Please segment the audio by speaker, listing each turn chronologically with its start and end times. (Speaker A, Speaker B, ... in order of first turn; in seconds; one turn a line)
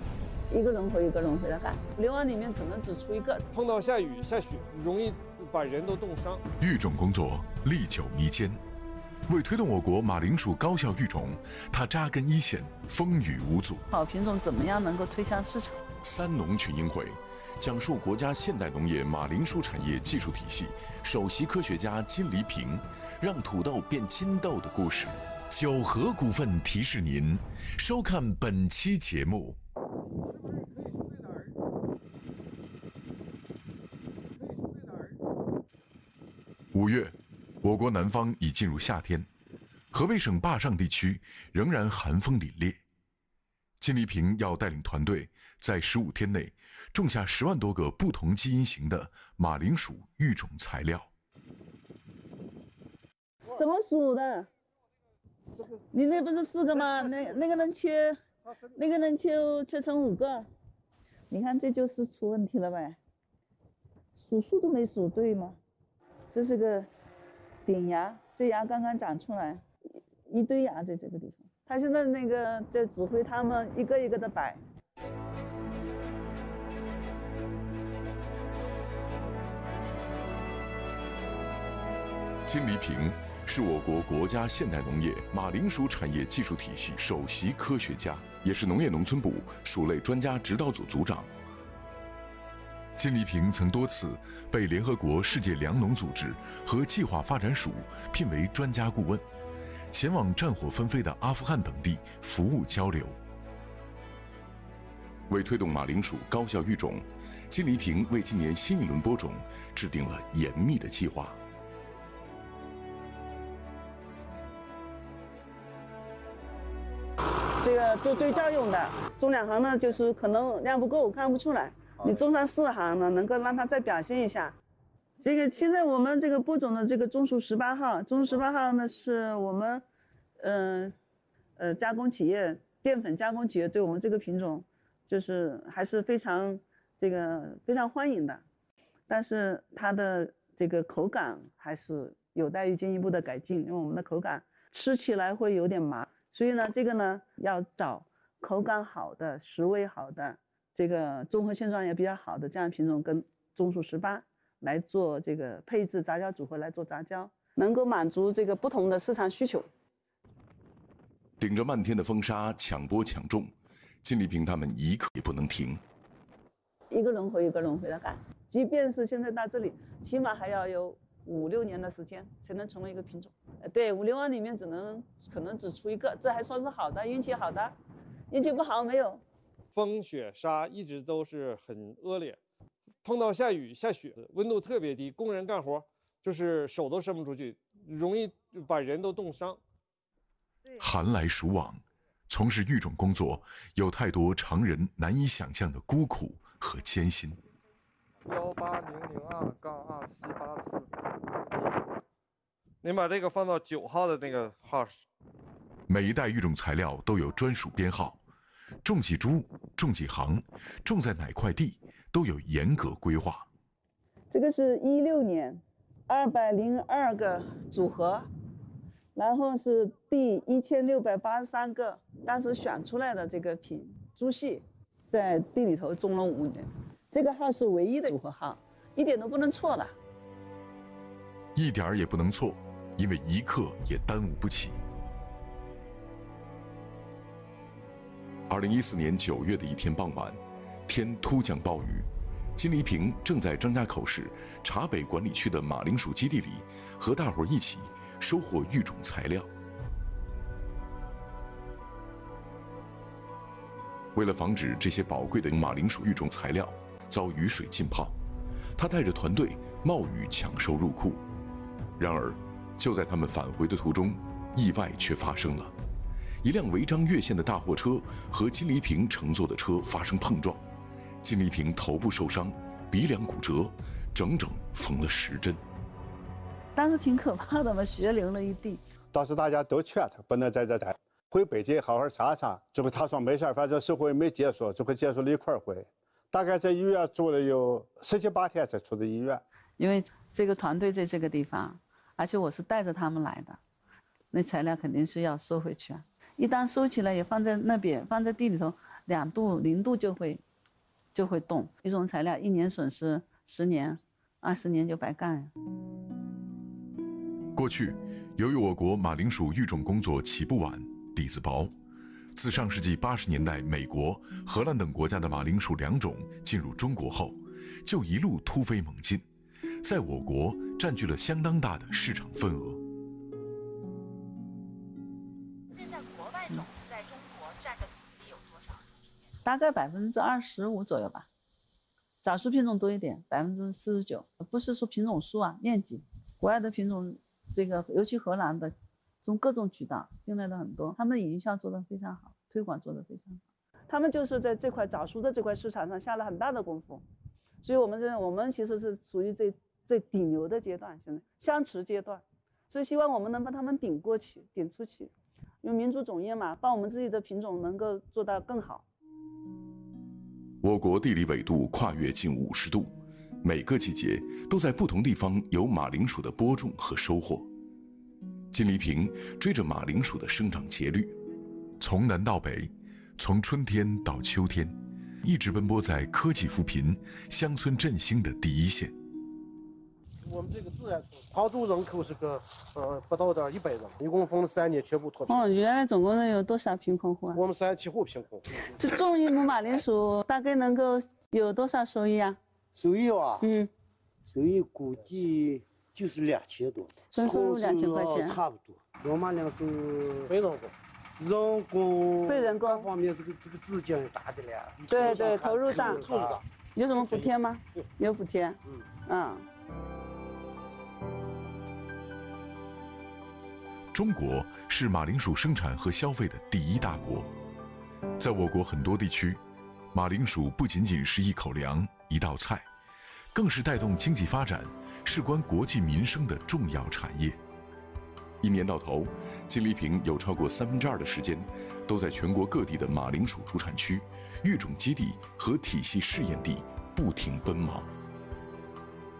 Speaker A: 0.5-3.4
Speaker B: 3.5-6.4
Speaker C: 6.6-8.6
Speaker C: 9.3-13.8
Speaker A: 13.9-15.8
Speaker C: 16.0-29.6
Speaker D: 30.4-31.5
Speaker D: 34.4-35.1
Speaker C: 36.7-39.3
Speaker C: 39.9-42.8
Speaker C: 43.8-51.1
Speaker A: 53.5-54.5
Speaker A: 55.9-58.2
Speaker A: 58.8-60.5
Speaker A: 61.3-63.0
Speaker A: 64.2-65.6
Speaker A: 66.3-66.9
Speaker A: 67.7-69.6
Speaker A: 70.2-74.6
Speaker C: 82.5-91.3
Speaker C: 93.0-99.2
Speaker C: 99.9-103.2
Speaker C: 105.3-111.4
Speaker A: 117.6-124.6
Speaker A: 125.2-129.8
Speaker A: 130.4-130.9
Speaker A: 131.6-138.4
Speaker A: 139.1-159.7
Speaker C: 161.4-163.5
Speaker C: 164.0-165.8
Speaker A: 166.9-177.7
Speaker A: 178.3-179.2
Speaker B: 179.7-182.4
Speaker B: 183.0-189.6
Speaker C: 190.8-197.4
Speaker B: 198.3-200.8
Speaker B: 202.8-205.0
Speaker C: 205.9-208.2
Speaker C: 208.8-213.5
Speaker A: 214.3-218.3
Speaker A: 219.1-229.9
Speaker C: 231.5-234.8
Speaker C: 238.5-249.5
Speaker C: 254.1-258.1
Speaker C: 258.8-261.2
Speaker C: 262.0-265.7
Speaker C: 266.4-270.6
Speaker C: 271.2-275.6
Speaker A: 276.8-278.8
Speaker E: 279.1-289.4
Speaker A: 289.8-293.6
Speaker A: 294.3-300.4
Speaker A: 301.1-305.5
Speaker C: 307.5-311.7
Speaker C: 312.3-319.2
Speaker C: 319.8-322.8
Speaker F: 325.7-329.3
Speaker A: 329.4-331.3
Speaker A: 332.2-347.0
Speaker A: 347.6-355.1
Speaker A: 355.6-358.8
Speaker C: 360.6-367.5
Speaker C: 368.5-371.1
Speaker C: 371.8-378.9
Speaker D: 380.2-385.5
Speaker A: 385.3-387.4
Speaker D: 387.3-388.7
Speaker A: 388.7-392.4
Speaker G: 392.7-393.4
Speaker A: 393.4-393.7
Speaker G: 394.3-406.4
Speaker A: 397.1-398.4
Speaker A: 402.2-402.9
Speaker A: 404.9-406.0
Speaker D: 404.9-406.4
Speaker A: 406.7-409.4
Speaker C: 413.9-417.3
Speaker C: 418.2-419.4
Speaker C: 419.9-422.6
Speaker C: 423.3-427.4
Speaker C: 428.4-437.9